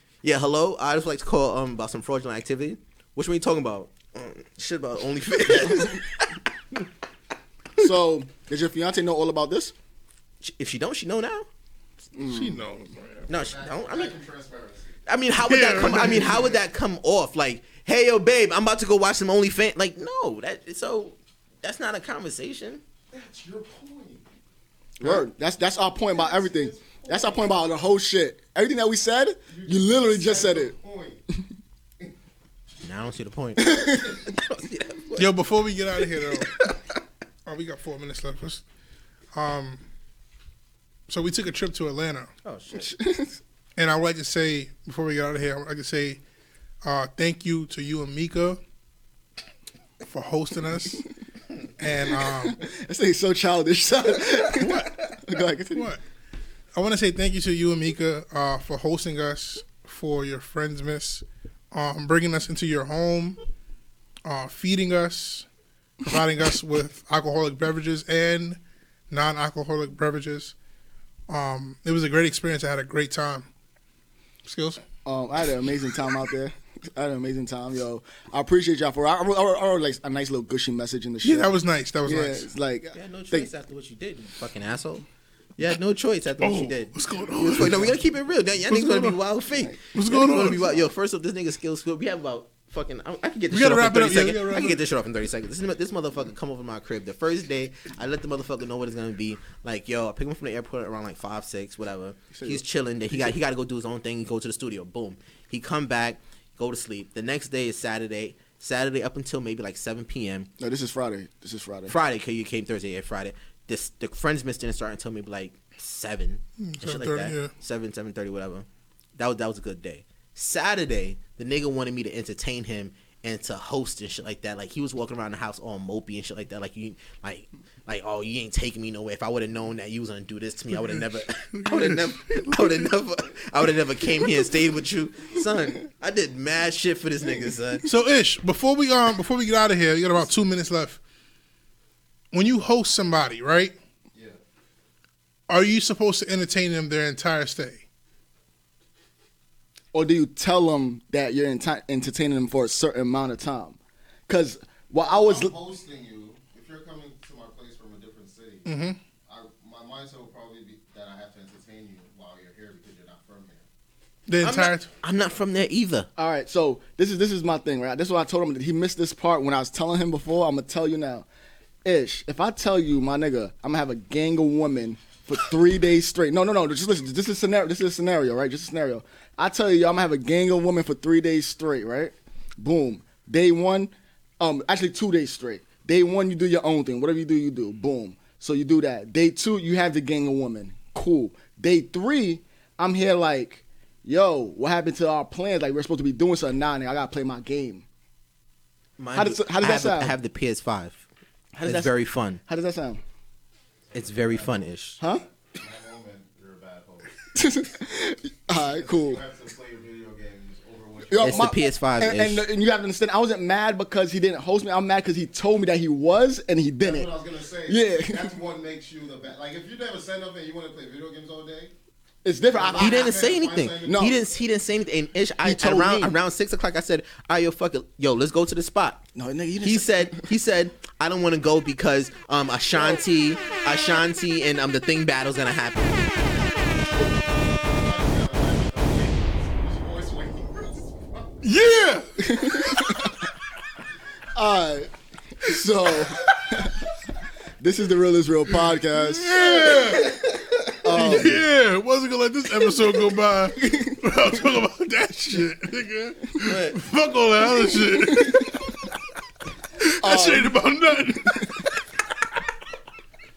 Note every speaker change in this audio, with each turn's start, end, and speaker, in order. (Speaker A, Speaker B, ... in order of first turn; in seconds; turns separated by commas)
Speaker A: 0.2-6.4, Speaker B: 7.8-9.7, Speaker A: 10.4-11.5, Speaker B: 12.1-12.7, Speaker C: 12.2-13.3, Speaker A: 13.3-14.2, Speaker D: 13.3-15.0, Speaker A: 15.1-22.8, Speaker C: 15.4-16.5, Speaker D: 23.1-24.2, Speaker B: 25.0-30.8, Speaker D: 26.0-27.6, Speaker D: 29.5-31.2, Speaker A: 32.8-35.4, Speaker B: 33.6-34.2, Speaker C: 35.2-36.5, Speaker A: 36.1-36.8, Speaker C: 37.5-38.6, Speaker C: 39.3-39.8, Speaker C: 41.1-42.3, Speaker A: 42.4-43.0, Speaker B: 42.8-43.4, Speaker C: 43.8-46.2, Speaker C: 46.8-48.6, Speaker C: 50.1-51.0, Speaker C: 51.8-52.6, Speaker B: 52.0-55.9, Speaker C: 54.5-55.1, Speaker C: 55.7-56.0, Speaker C: 56.8-63.4, Speaker C: 64.2-65.5, Speaker C: 66.0-68.6, Speaker C: 69.1-70.5, Speaker C: 71.3-73.5, Speaker C: 74.5-74.8, Speaker B: 75.0-83.5, Speaker C: 81.2-82.5, Speaker A: 82.9-85.0, Speaker A: 85.6-110.5, Speaker C: 86.4-88.0, Speaker C: 88.7-89.2, Speaker C: 89.9-90.8, Speaker C: 93.5-94.8, Speaker B: 102.3-102.6, Speaker B: 110.6-112.0, Speaker A: 111.9-137.9, Speaker C: 116.6-117.5, Speaker C: 131.6-132.8, Speaker C: 137.8-141.0, Speaker C: 142.3-143.8, Speaker D: 144.1-144.4, Speaker C: 145.5-147.8, Speaker B: 149.9-155.6, Speaker D: 155.0-158.7, Speaker C: 158.7-159.0, Speaker D: 159.3-163.7, Speaker C: 164.3-164.9, Speaker A: 164.4-166.1, Speaker B: 166.2-171.3, Speaker B: 171.8-197.8, Speaker A: 199.0-201.1, Speaker B: 199.1-200.2, Speaker B: 201.6-203.0, Speaker A: 201.6-202.4, Speaker A: 203.9-205.0, Speaker D: 204.0-207.2, Speaker B: 207.3-209.2, Speaker D: 208.5-211.5, Speaker B: 211.1-217.1, Speaker A: 211.2-212.5, Speaker D: 216.8-221.7, Speaker B: 217.7-218.4, Speaker B: 222.2-223.2, Speaker D: 222.3-224.3, Speaker A: 222.8-229.0, Speaker B: 223.8-224.2, Speaker B: 225.4-226.2, Speaker B: 229.2-230.3, Speaker A: 229.6-236.2, Speaker D: 237.5-241.4, Speaker C: 241.4-243.1, Speaker B: 242.2-243.2, Speaker B: 244.3-246.8, Speaker B: 247.6-250.0, Speaker C: 248.6-258.7, Speaker B: 250.8-251.4, Speaker B: 253.5-254.0, Speaker A: 256.4-256.8, Speaker B: 257.8-258.6, Speaker C: 259.8-261.8, Speaker B: 260.0-260.6